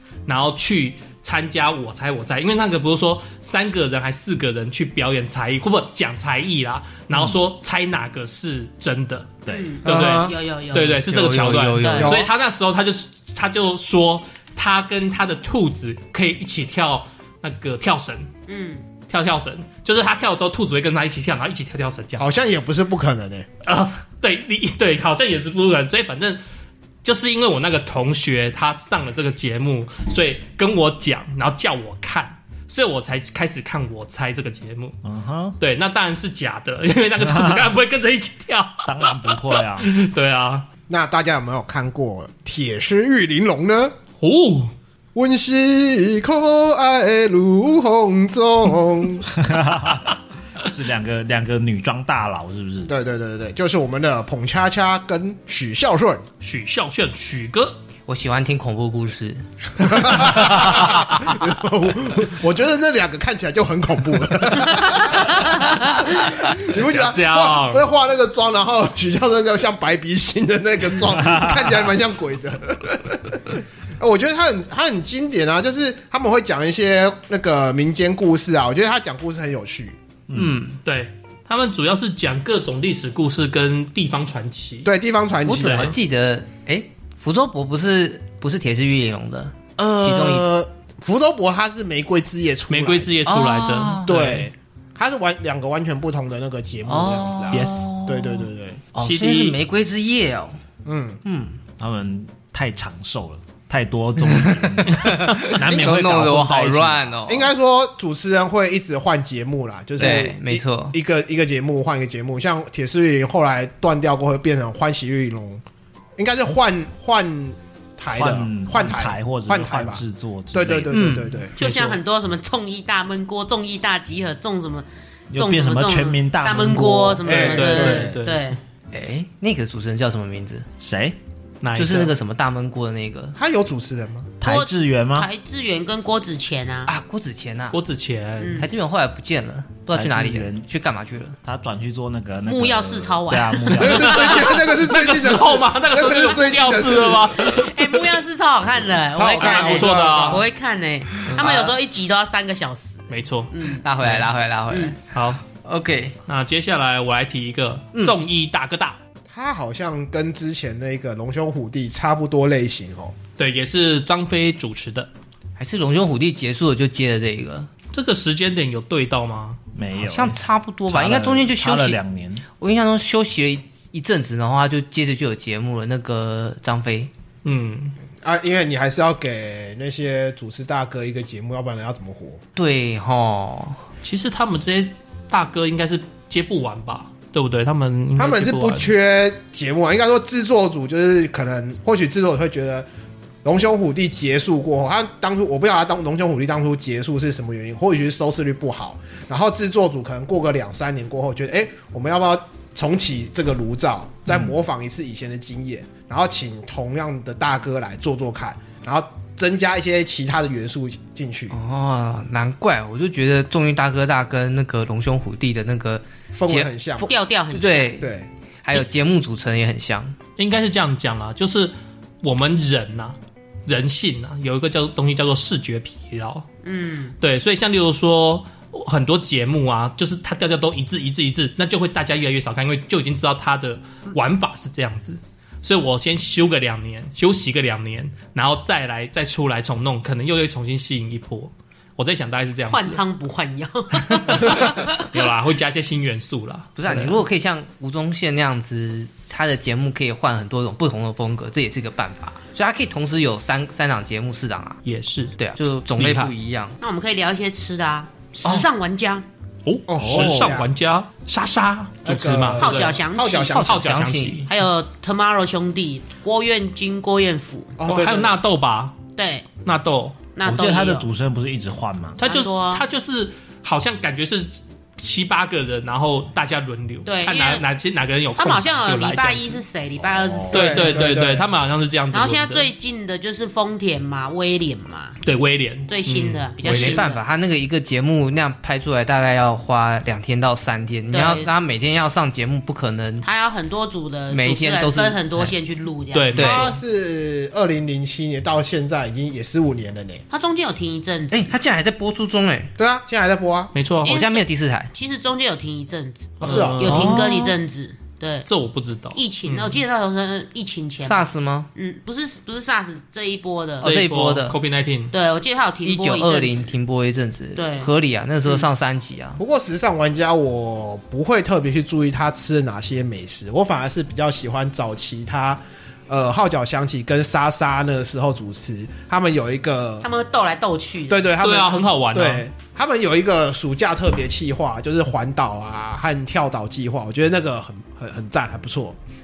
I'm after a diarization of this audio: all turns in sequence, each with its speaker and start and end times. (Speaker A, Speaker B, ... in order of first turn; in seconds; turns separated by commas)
Speaker A: 0.3-18.3, Speaker B: 9.4-9.8, Speaker C: 9.5-11.1, Speaker D: 9.8-10.3, Speaker E: 11.1-12.2, Speaker C: 11.8-12.2, Speaker D: 12.0-12.3, Speaker C: 18.5-18.8, Speaker A: 19.1-22.3, Speaker D: 22.2-23.5, Speaker A: 23.6-26.4, Speaker A: 27.0-35.0, Speaker B: 35.0-35.6, Speaker A: 35.6-40.6, Speaker B: 37.2-37.7, Speaker B: 38.8-39.9, Speaker D: 40.9-43.9, Speaker A: 44.2-44.7, Speaker D: 45.1-49.3, Speaker B: 49.3-52.9, Speaker D: 52.9-56.2, Speaker A: 56.4-57.8, Speaker E: 58.1-59.4, Speaker D: 59.8-80.0, Speaker A: 60.2-60.9, Speaker A: 66.7-67.9, Speaker B: 71.2-71.8, Speaker B: 80.3-80.6, Speaker E: 80.3-80.8, Speaker A: 80.8-84.9, Speaker D: 84.8-85.9, Speaker E: 85.4-90.5, Speaker A: 85.5-85.9, Speaker D: 89.8-93.2, Speaker A: 92.7-94.5, Speaker E: 93.2-94.1, Speaker D: 94.0-98.8, Speaker E: 96.8-100.6, Speaker A: 97.5-97.9, Speaker A: 99.0-99.6, Speaker D: 100.8-101.2, Speaker E: 101.2-101.6, Speaker B: 101.8-107.1, Speaker E: 104.2-107.5, Speaker D: 105.7-106.0, Speaker D: 107.3-115.6, Speaker E: 110.0-110.9, Speaker D: 116.2-121.5, Speaker B: 118.2-121.0, Speaker E: 120.9-121.4, Speaker A: 121.6-122.0, Speaker C: 121.6-128.6, Speaker B: 125.3-127.3, Speaker D: 127.2-128.2, Speaker A: 127.4-128.4, Speaker E: 128.9-130.7, Speaker B: 130.8-131.2, Speaker A: 131.6-132.1, Speaker E: 131.7-133.4, Speaker D: 133.3-134.3, Speaker B: 134.4-135.3, Speaker C: 134.4-136.9, Speaker E: 136.9-137.8, Speaker A: 137.7-138.6, Speaker C: 138.4-138.7, Speaker E: 138.5-141.3, Speaker B: 139.9-140.7, Speaker B: 141.4-144.4, Speaker C: 142.5-143.9, Speaker D: 143.8-147.3, Speaker A: 143.8-148.1, Speaker C: 147.4-153.8, Speaker D: 149.1-150.4, Speaker A: 149.4-150.4, Speaker E: 151.3-151.7, Speaker A: 153.1-153.5, Speaker E: 153.8-156.1, Speaker C: 154.7-154.9, Speaker A: 155.1-155.4, Speaker A: 156.2-159.0, Speaker D: 159.3-163.1, Speaker A: 163.4-165.1, Speaker E: 165.6-167.7, Speaker A: 167.9-169.6, Speaker B: 169.7-172.4, Speaker E: 170.0-172.0, Speaker E: 172.5-177.1, Speaker A: 177.4-177.9, Speaker D: 178.2-182.4, Speaker E: 182.6-183.8, Speaker A: 184.0-188.9, Speaker D: 188.2-192.8, Speaker D: 193.4-211.6, Speaker E: 211.5-218.1, Speaker D: 216.3-217.1, Speaker C: 217.0-218.0, Speaker D: 218.0-218.3, Speaker E: 218.6-220.1, Speaker A: 220.4-226.4, Speaker C: 226.6-227.1, Speaker A: 227.2-243.0, Speaker C: 242.7-245.0, Speaker A: 244.0-247.2, Speaker E: 246.8-254.8, Speaker A: 254.8-255.4, Speaker E: 255.4-256.8, Speaker A: 255.9-256.3, Speaker C: 256.8-259.2, Speaker A: 259.6-262.9, Speaker D: 259.9-260.7, Speaker B: 260.1-260.5, Speaker D: 262.0-264.0, Speaker C: 262.6-263.7, Speaker A: 263.5-264.5, Speaker E: 263.6-264.5, Speaker C: 264.4-267.8, Speaker D: 267.8-268.4, Speaker A: 267.8-268.9, Speaker C: 269.1-269.5, Speaker A: 269.6-270.2, Speaker C: 270.3-271.1, Speaker B: 270.4-272.2, Speaker A: 272.2-279.6, Speaker C: 272.2-272.8, Speaker C: 277.1-277.6, Speaker C: 278.4-281.0, Speaker B: 280.0-280.7, Speaker D: 280.5-281.4, Speaker A: 280.5-282.7, Speaker C: 282.1-285.2, Speaker A: 285.2-287.0, Speaker C: 285.9-287.2, Speaker E: 286.6-293.2, Speaker C: 291.1-291.5, Speaker C: 293.2-296.7, Speaker E: 294.3-295.5, Speaker A: 296.1-296.8, Speaker E: 296.3-296.7, Speaker D: 296.4-300.2, Speaker C: 300.3-301.5, Speaker E: 301.3-302.7, Speaker D: 302.8-303.7, Speaker A: 303.7-304.1, Speaker E: 304.0-304.9, Speaker C: 304.0-308.5, Speaker A: 306.4-307.2, Speaker D: 306.4-307.0, Speaker E: 306.8-307.6, Speaker A: 308.4-309.8, Speaker C: 309.1-313.9, Speaker E: 311.0-311.7, Speaker E: 313.8-314.6, Speaker A: 313.8-315.1, Speaker C: 315.1-316.7, Speaker E: 315.8-319.4, Speaker C: 317.5-317.9, Speaker D: 319.4-330.1, Speaker C: 330.0-331.3, Speaker D: 331.1-338.9, Speaker A: 331.4-332.4